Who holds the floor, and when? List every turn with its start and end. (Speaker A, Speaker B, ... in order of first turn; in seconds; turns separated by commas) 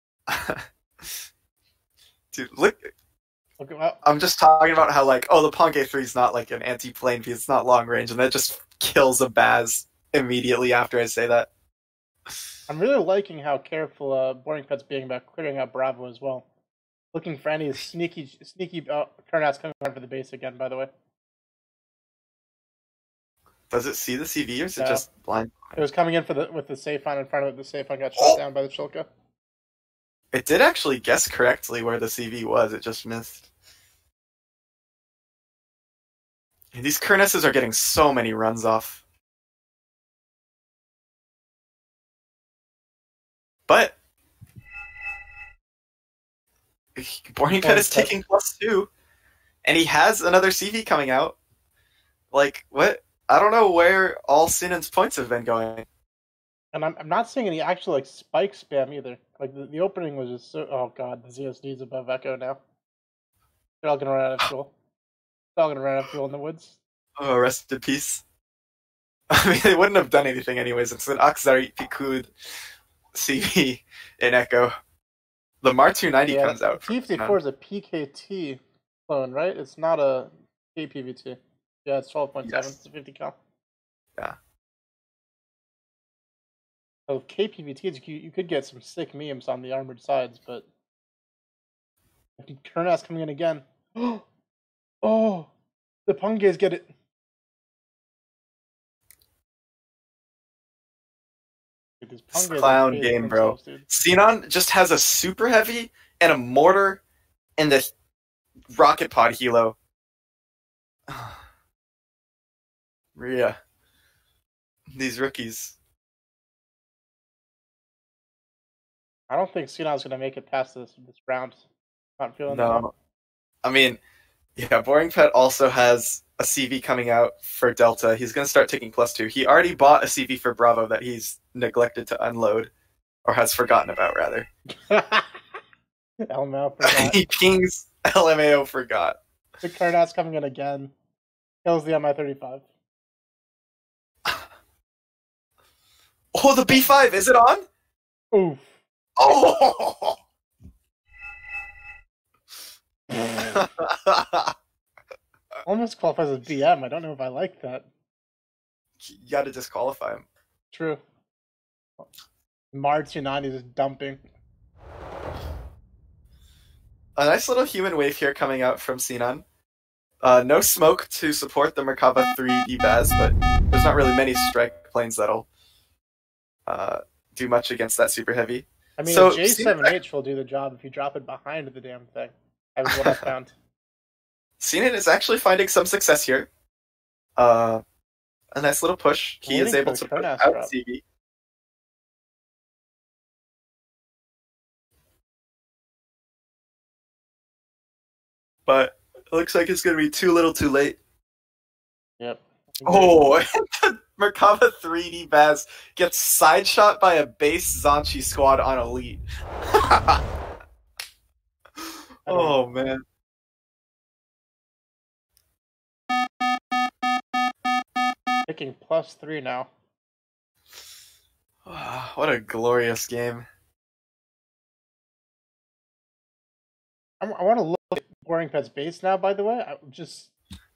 Speaker A: 0.3-1.1, Speaker A: 2.3-2.9, Speaker B: 3.6-4.0, Speaker A: 4.0-11.5, Speaker B: 12.7-16.5, Speaker B: 17.1-20.9, Speaker A: 23.7-25.8, Speaker B: 24.8-25.1, Speaker B: 25.8-29.1, Speaker A: 30.3-33.5, Speaker A: 36.7-39.0, Speaker A: 43.7-44.0, Speaker A: 47.0-48.9, Speaker B: 47.6-48.1, Speaker A: 49.6-51.4, Speaker A: 52.3-55.9, Speaker B: 56.7-62.6, Speaker B: 63.8-64.7, Speaker B: 65.6-66.8, Speaker A: 67.2-68.2, Speaker A: 69.3-72.3, Speaker A: 73.1-74.7, Speaker A: 75.6-77.4, Speaker B: 76.3-83.4, Speaker A: 82.4-82.7, Speaker B: 87.1-90.7, Speaker B: 92.4-94.2, Speaker B: 95.0-95.5, Speaker B: 96.1-96.9, Speaker B: 102.0-103.9, Speaker A: 102.3-107.0, Speaker A: 107.6-107.9, Speaker A: 108.7-109.8, Speaker A: 111.1-111.4, Speaker A: 113.2-113.6, Speaker A: 114.9-115.8, Speaker B: 119.3-121.6, Speaker B: 122.2-122.9, Speaker A: 122.5-122.9, Speaker A: 123.6-124.0, Speaker A: 124.6-132.7, Speaker A: 133.2-134.5, Speaker B: 134.9-135.4, Speaker B: 136.3-137.2, Speaker A: 136.8-139.2, Speaker B: 139.6-140.9, Speaker B: 141.6-142.7, Speaker A: 146.3-147.6, Speaker B: 146.8-147.0, Speaker B: 148.3-148.7, Speaker A: 149.2-150.2, Speaker A: 153.5-154.5, Speaker B: 155.7-157.9, Speaker A: 159.0-160.2, Speaker B: 160.7-161.0, Speaker B: 162.7-164.2, Speaker A: 167.2-169.4, Speaker A: 170.2-175.5, Speaker A: 176.7-179.9, Speaker B: 179.0-183.6, Speaker A: 184.6-186.5, Speaker A: 187.4-187.8, Speaker A: 188.6-191.0, Speaker B: 189.4-190.7, Speaker A: 198.7-201.0, Speaker B: 202.2-203.3, Speaker A: 202.9-210.2, Speaker A: 211.8-213.0, Speaker B: 212.3-212.6, Speaker B: 218.5-219.7, Speaker A: 221.7-223.5, Speaker B: 227.2-230.3